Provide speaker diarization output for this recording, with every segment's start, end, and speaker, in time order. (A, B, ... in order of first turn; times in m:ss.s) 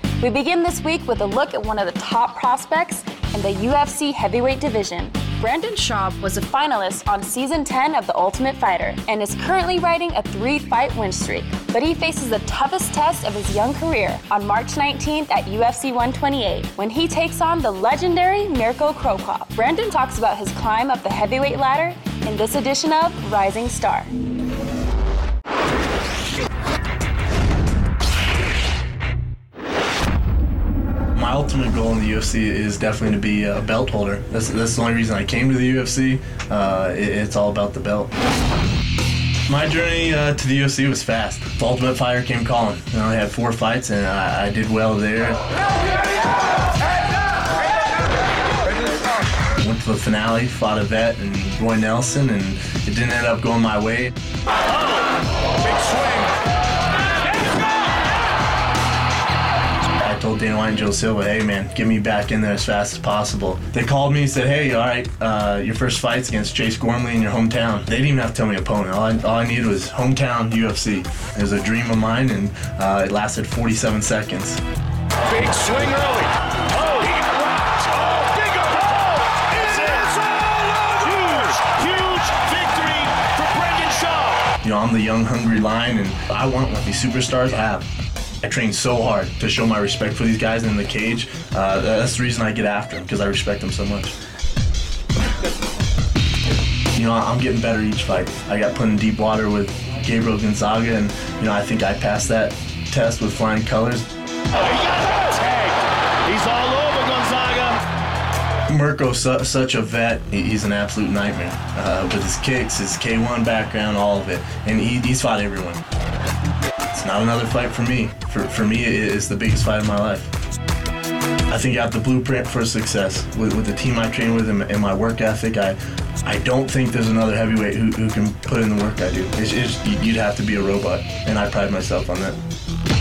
0:00.2-0:24.1 A
0:31.1-0:38.1 B
0:39.5-0:45.4 B
0:49.6-0:54.1 B
0:55.7-0:56.2 C
1:00.0-1:14.6 B
1:15.3-1:16.3 C
1:16.8-1:17.2 C
1:17.9-1:24.4 C
1:24.6-1:27.8 B
1:28.4-1:34.1 B
1:36.9-1:44.0 B
1:44.6-1:47.8 C
1:48.7-1:55.8 B
1:56.9-2:00.3 B
2:01.5-2:12.4 B